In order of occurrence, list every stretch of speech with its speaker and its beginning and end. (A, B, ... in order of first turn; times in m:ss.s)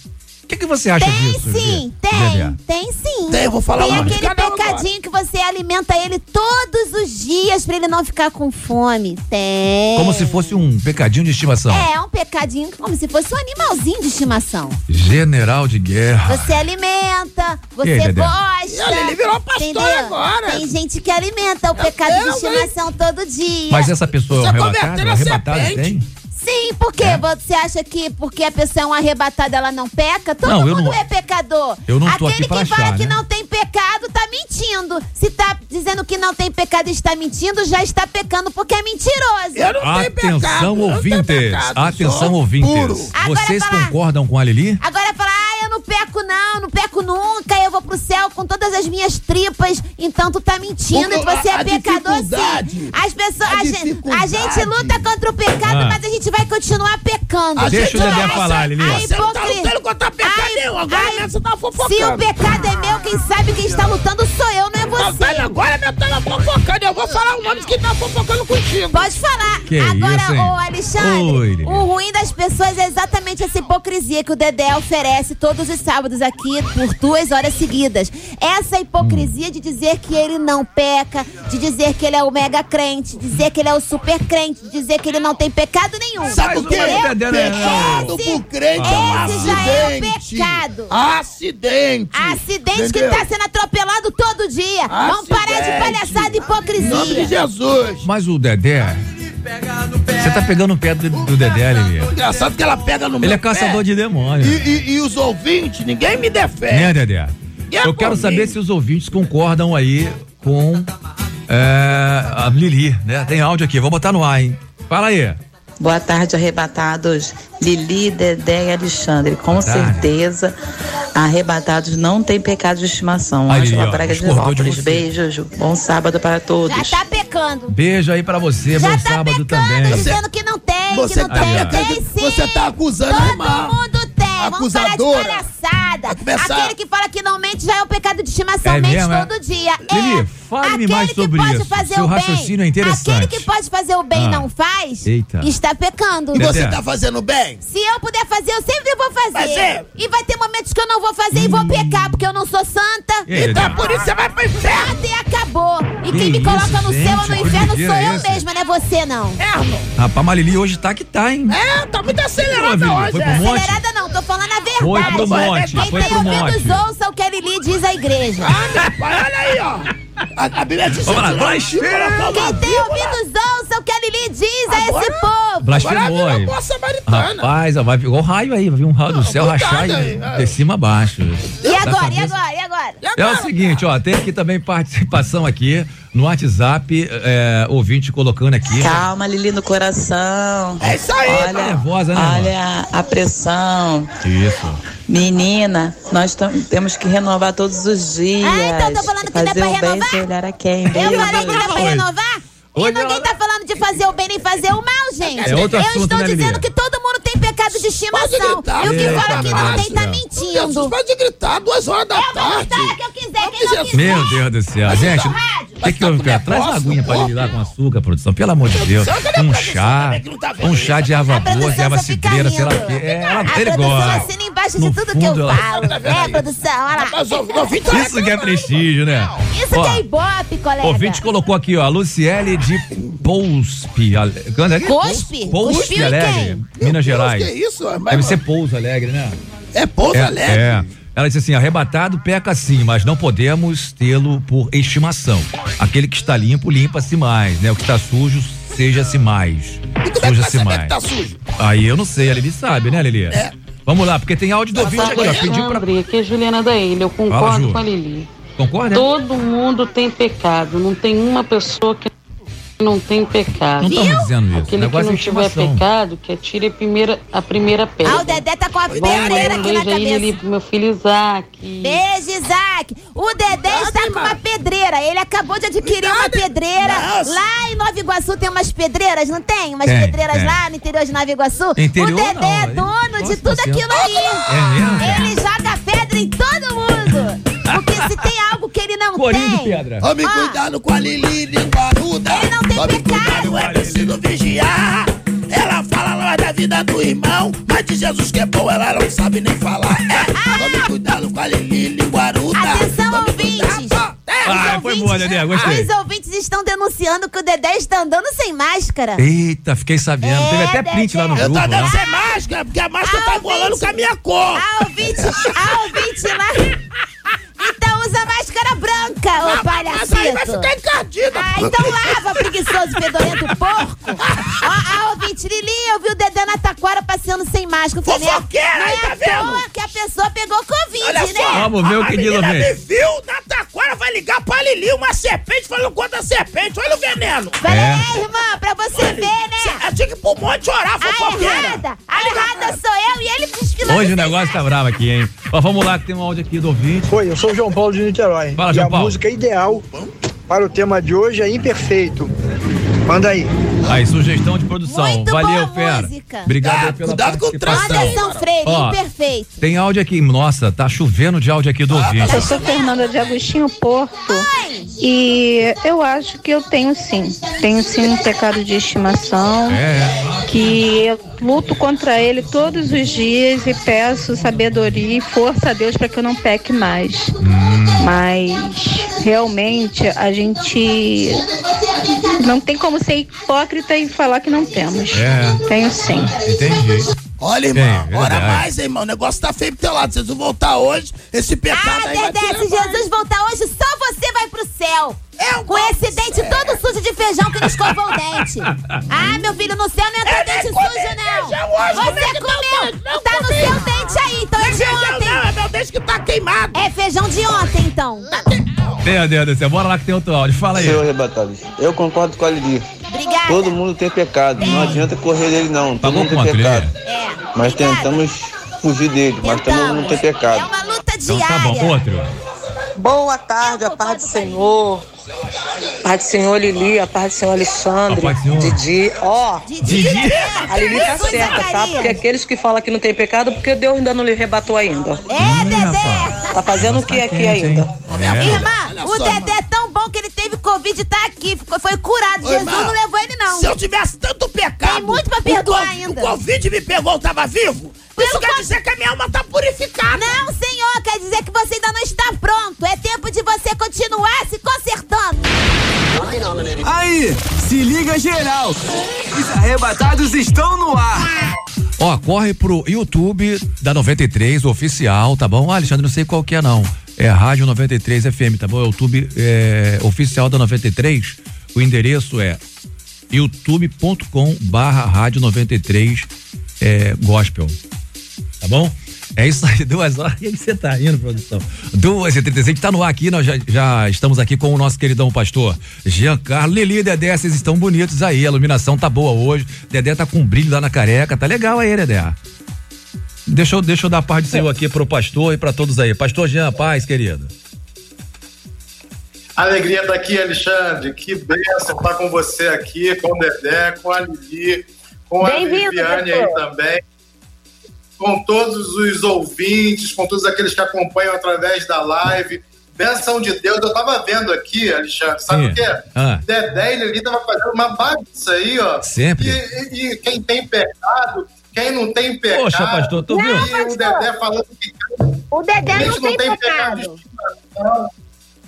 0:00.5-0:02.6 A
0:01.0-0:10.4 B
0:03.3-0:04.9 C
0:03.8-0:04.1 A
0:10.0-0:11.9 A
0:11.7-0:14.8 B
0:14.9-0:16.6 A
0:16.3-0:23.9 B
0:17.8-0:18.3 A
0:18.7-0:20.6 C
0:21.8-0:22.7 C
0:23.7-0:26.0 A
0:24.3-0:26.0 C
0:26.3-0:39.7 B
0:30.4-0:31.0 A
0:31.9-0:33.2 A
0:39.5-0:43.1 C
0:39.8-0:44.8 A
0:43.2-0:43.9 B
0:44.8-0:59.7 B
0:50.9-0:55.1 C
0:55.6-0:56.0 A
0:57.6-1:02.5 C
0:57.7-0:59.0 A
1:00.2-1:05.5 B
1:05.0-1:09.1 C
1:08.9-1:30.9 B
1:09.7-1:11.8 A
1:19.0-1:19.3 A
1:26.2-1:33.3 C
1:26.4-1:28.1 A
1:28.7-1:29.8 A
1:32.1-1:37.3 B
1:34.9-1:38.0 C
1:38.0-1:39.0 A
1:39.4-1:40.1 D
1:40.2-1:42.1 A
1:42.1-1:43.8 C
1:43.2-1:44.8 A
1:44.4-1:46.9 C
1:46.7-1:50.9 A
1:47.7-1:48.6 C
1:51.5-1:55.4 A
1:55.8-2:00.5 E
1:59.6-2:00.1 A
2:01.1-2:07.0 E
2:03.5-2:05.1 A
2:06.6-2:07.7 B
2:07.7-2:10.1 A
2:08.8-2:26.6 B
2:09.8-2:10.2 C
2:10.9-2:13.8 C
2:11.2-2:11.8 A
2:14.4-2:15.5 C
2:16.1-2:16.7 C
2:18.6-2:19.3 A
2:19.9-2:23.5 A
2:24.1-2:24.5 A
2:25.0-2:25.5 A
2:26.3-2:26.8 A
2:26.3-2:27.6 C
2:27.6-2:33.7 B
2:29.3-2:29.8 C
2:31.3-2:32.1 A
2:33.2-2:33.8 A
2:33.3-2:34.9 C
2:34.7-2:39.4 B
2:36.0-2:38.4 A
2:39.4-2:39.9 C
2:40.0-2:41.6 A
2:41.5-2:43.5 C
2:42.4-2:43.8 A
2:43.2-2:48.6 B
2:44.8-2:46.8 A
2:44.9-2:46.5 C
2:48.4-2:53.2 C
2:51.0-2:52.5 A
2:52.3-2:55.7 B
2:54.7-2:57.5 C
2:55.6-2:56.5 A
2:57.1-3:02.3 A
2:59.1-3:00.5 C
3:01.6-3:03.0 B
3:03.0-3:03.6 C
3:03.2-3:09.0 A
3:08.8-3:14.1 E
3:10.8-3:11.6 C
3:11.3-3:12.5 A
3:14.2-3:14.8 A
3:15.1-3:21.7 E
3:18.4-3:20.2 B
3:20.9-3:22.1 A
3:20.9-3:30.9 B
3:22.7-3:23.3 A
3:25.2-3:25.8 C
3:25.4-3:26.6 A
3:28.1-3:34.3 C
3:28.8-3:30.2 A
3:32.2-3:35.8 B
3:33.9-3:45.7 A
3:34.9-3:35.3 C
3:35.8-3:37.5 C
3:38.7-3:41.3 C
3:41.3-3:47.7 B
3:43.8-3:44.2 C
3:45.5-3:49.4 C
3:47.9-3:50.0 A
3:49.5-3:51.2 B
3:50.8-3:57.5 A
3:54.8-3:56.6 B
3:55.5-3:56.2 C
3:56.7-3:58.4 C
3:58.1-3:59.4 A
3:59.7-4:00.8 C
4:00.1-4:11.0 A
4:10.0-4:11.4 C
4:11.6-4:15.8 A
4:14.7-4:15.5 C
4:14.8-4:18.3 F
4:17.3-4:17.8 A
4:18.6-4:19.0 A
4:18.9-4:22.1 F
4:22.8-4:32.0 F
4:23.8-4:25.8 A
4:23.9-4:24.2 B
4:28.0-4:30.3 B
4:28.9-4:29.7 C
4:31.8-4:44.5 B
4:33.6-4:34.4 C
4:35.8-4:37.4 C
4:39.8-4:40.6 A
4:41.8-4:43.8 A
4:43.9-4:45.2 C
4:44.5-4:45.3 A
4:45.0-4:50.6 B
4:49.2-4:50.1 A
4:50.0-5:04.9 C
4:52.3-4:53.6 B
4:53.1-4:54.2 A
5:00.3-5:00.9 B
5:02.5-5:04.0 B
5:04.4-5:05.9 A
5:04.5-5:09.2 B
5:09.2-5:12.0 A
5:10.2-5:12.3 B
5:11.3-5:14.6 C
5:13.0-5:13.9 B
5:14.5-5:16.7 B
5:15.2-5:15.7 C
5:17.6-5:20.7 B
5:19.4-5:22.5 C
5:21.3-5:31.6 B
5:24.2-5:24.5 C
5:28.0-5:29.6 C
5:31.0-5:37.6 C
5:31.5-5:32.7 A
5:37.6-5:39.8 B
5:37.6-5:38.0 A
5:38.9-5:42.8 C
5:41.0-5:44.6 B
5:43.9-5:47.1 A
5:47.1-5:49.8 G
5:48.5-5:49.2 A
5:50.5-5:52.3 G
5:53.1-5:53.5 G
5:53.9-5:59.0 A
5:54.8-5:56.5 B
5:56.6-5:58.5 C
5:57.7-5:59.6 B
5:59.6-6:02.5 A
6:01.9-6:02.6 C
6:02.3-6:04.4 H
6:02.3-6:02.9 B
6:04.4-6:04.9 B
6:05.0-6:09.8 H
6:09.7-6:10.7 A
6:10.5-6:17.3 H
6:17.4-6:18.1 A
6:18.0-6:21.4 H
6:22.2-6:26.4 H
6:25.1-6:25.6 A
6:26.3-6:27.1 A
6:27.4-6:33.0 C
6:27.7-6:28.6 A
6:31.7-6:45.4 B
6:35.4-6:36.8 C
6:38.7-6:39.0 A
6:40.2-6:43.9 C
6:44.6-6:46.8 C
6:46.7-6:48.4 B
6:49.0-6:51.1 A
6:50.7-6:52.8 I
6:53.1-6:53.8 B
6:53.4-6:56.9 I
6:54.6-6:55.0 B
6:54.6-6:54.9 A
6:56.0-6:56.9 A
6:57.0-6:58.2 B
6:57.5-7:00.7 I
6:59.4-7:01.9 B
7:01.3-7:02.3 A
7:03.0-7:05.0 J
7:03.6-7:04.6 B
7:06.0-7:09.6 J
7:08.1-7:08.8 A
7:09.6-7:12.2 B
7:09.8-7:10.4 A
7:09.8-7:11.6 C
7:10.7-7:15.2 J
7:15.3-7:16.7 B
7:15.4-7:18.7 A
7:16.5-7:17.9 J
7:18.1-7:19.6 C
7:18.3-7:23.7 B
7:22.4-7:23.0 C
7:23.5-7:30.4 C
7:24.8-7:26.3 B
7:28.2-7:28.7 B
7:30.1-7:35.4 B
7:36.8-7:41.3 D
7:42.0-7:52.6 A
7:53.3-7:56.3 A
7:56.8-7:57.8 A
7:58.6-8:12.4 A
8:13.5-8:17.5 A
8:19.6-8:27.0 K
8:25.4-8:26.6 B
8:28.2-8:45.3 K
8:35.5-8:36.4 A
8:39.0-8:39.6 A
8:42.5-8:43.7 A
8:43.3-8:44.3 B
8:45.5-8:47.2 B
8:45.9-8:48.1 K